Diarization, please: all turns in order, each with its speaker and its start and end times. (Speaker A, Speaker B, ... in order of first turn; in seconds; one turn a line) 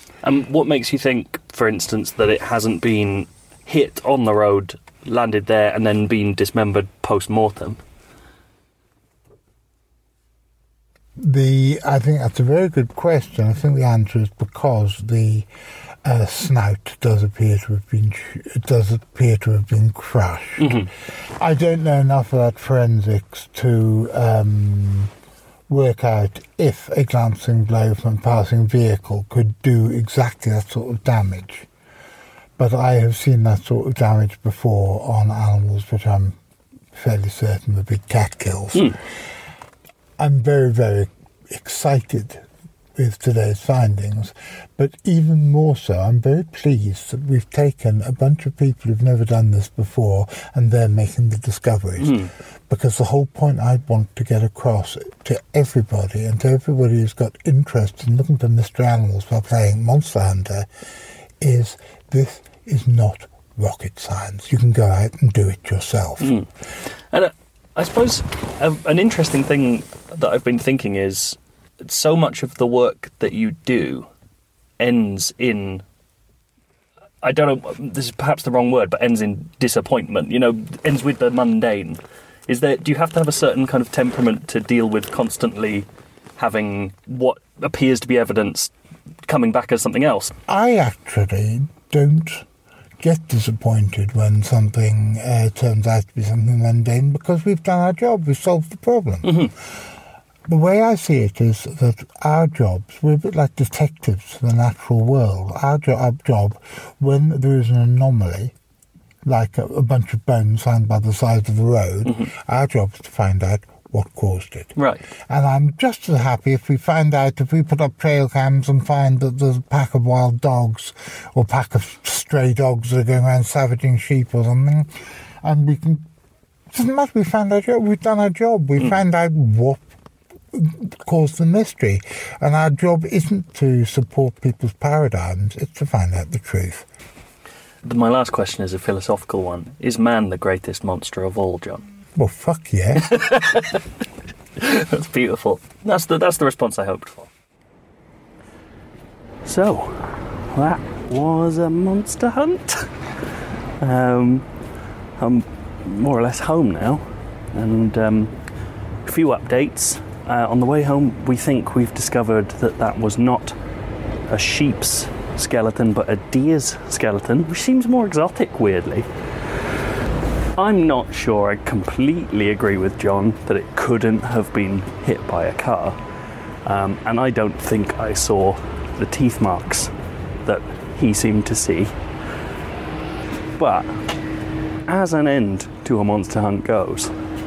Speaker A: 0.2-7.8
Speaker B: 11.2-15.5
Speaker B: 16.1-20.9
Speaker A: 20.6-20.9
Speaker B: 21.4-25.1
Speaker B: 25.7-31.7
Speaker B: 32.6-36.4
Speaker B: 37.0-39.0
Speaker B: 40.2-42.5
Speaker B: 43.0-60.7
Speaker A: 52.0-52.3
Speaker B: 61.4-66.4
Speaker A: 66.2-66.5
Speaker A: 67.1-74.1
Speaker A: 74.8-75.8
Speaker A: 77.2-88.7
Speaker A: 89.3-90.3
Speaker B: 90.5-92.5
Speaker B: 93.0-99.5
Speaker A: 99.2-99.5
Speaker B: 100.5-108.5
Speaker B: 109.3-114.7
Speaker A: 112.0-112.3
Speaker A: 114.8-115.0
Speaker B: 115.3-124.9
Speaker B: 125.4-126.0
Speaker B: 126.7-129.8
Speaker B: 130.5-136.8
Speaker A: 137.8-141.8
Speaker B: 142.2-143.2
Speaker A: 143.0-143.8
Speaker A: 144.6-147.3
Speaker A: 149.4-152.9
Speaker A: 153.8-154.5
Speaker A: 155.2-158.3
Speaker A: 159.1-163.6
Speaker A: 164.3-169.1
Speaker A: 170.6-176.0
Speaker A: 176.7-179.9
Speaker A: 180.4-181.9
Speaker A: 183.6-184.0
Speaker A: 184.9-187.1